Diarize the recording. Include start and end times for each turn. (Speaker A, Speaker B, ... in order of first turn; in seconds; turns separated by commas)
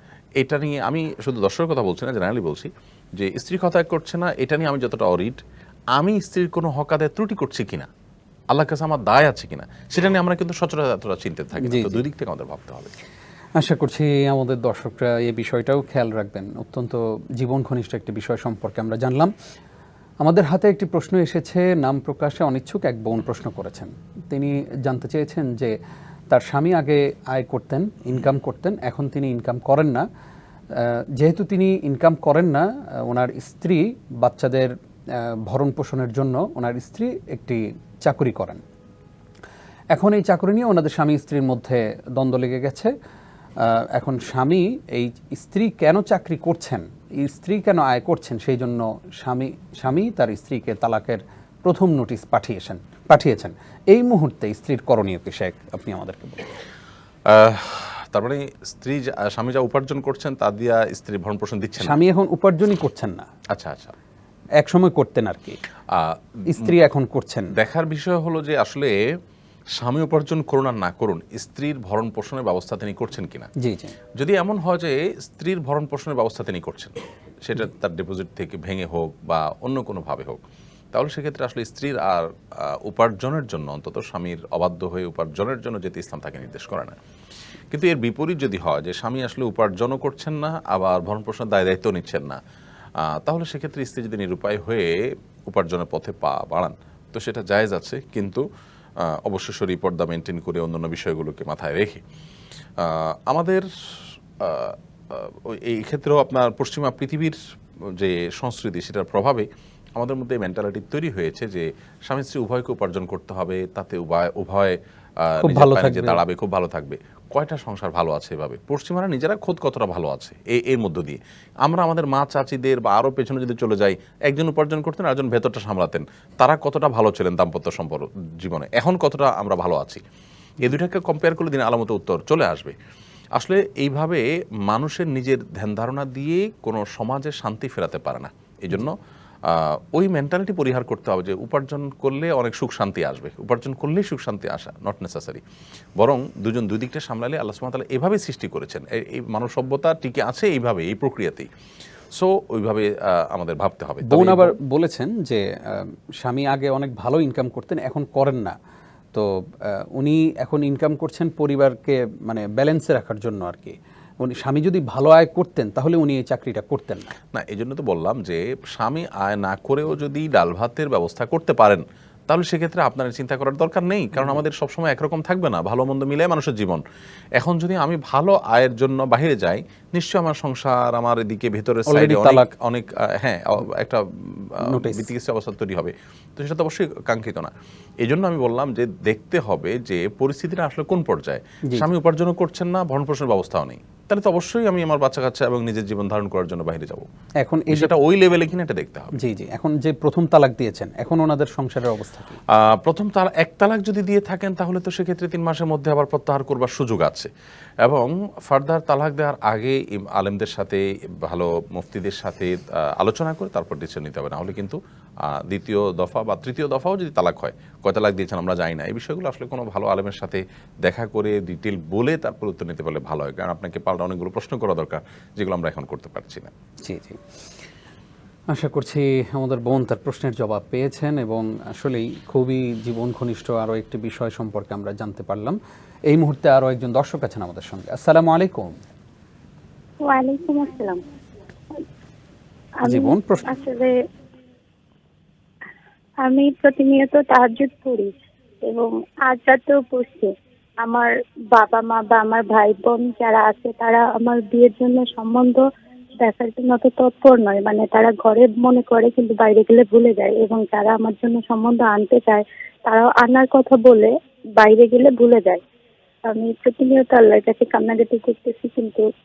Speaker A: 0.4-5.4, Speaker A: 6.0-7.9, Speaker A: 8.5-12.9, Speaker B: 11.6-12.0, Speaker B: 13.6-19.3, Speaker B: 20.2-25.7, Speaker B: 26.3-30.0, Speaker B: 30.7-38.6, Speaker B: 39.9-42.9, Speaker B: 43.6-56.5, Speaker A: 57.3-62.0, Speaker B: 61.8-63.3, Speaker A: 63.5-63.9, Speaker B: 64.6-65.6, Speaker A: 65.9-66.7, Speaker B: 66.5-67.5, Speaker A: 67.5-69.0, Speaker A: 69.8-73.5, Speaker B: 73.6-73.9, Speaker A: 74.2-80.4, Speaker A: 80.9-87.0, Speaker A: 87.7-92.4, Speaker A: 93.0-98.4, Speaker A: 99.0-102.0, Speaker A: 102.8-107.4, Speaker A: 108.0-130.0, Speaker B: 115.4-116.2, Speaker A: 130.6-132.7, Speaker A: 133.4-145.4, Speaker A: 146.0-151.5, Speaker A: 152.1-154.5, Speaker B: 154.1-158.6, Speaker B: 159.1-167.1, Speaker A: 167.3-176.8, Speaker A: 177.4-197.1, Speaker B: 181.9-182.5, Speaker B: 184.6-185.1, Speaker B: 197.4-197.9, Speaker A: 197.7-199.2, Speaker B: 199.2-202.4, Speaker A: 202.5-207.3, Speaker A: 207.8-226.5, Speaker B: 226.8-227.2, Speaker B: 228.5-235.6, Speaker B: 236.1-238.8, Speaker C: 240.1-241.0, Speaker C: 242.8-243.9, Speaker B: 242.9-243.6, Speaker C: 246.2-248.1, Speaker C: 248.7-250.3, Speaker C: 250.8-255.6, Speaker C: 256.2-265.6, Speaker C: 266.3-269.0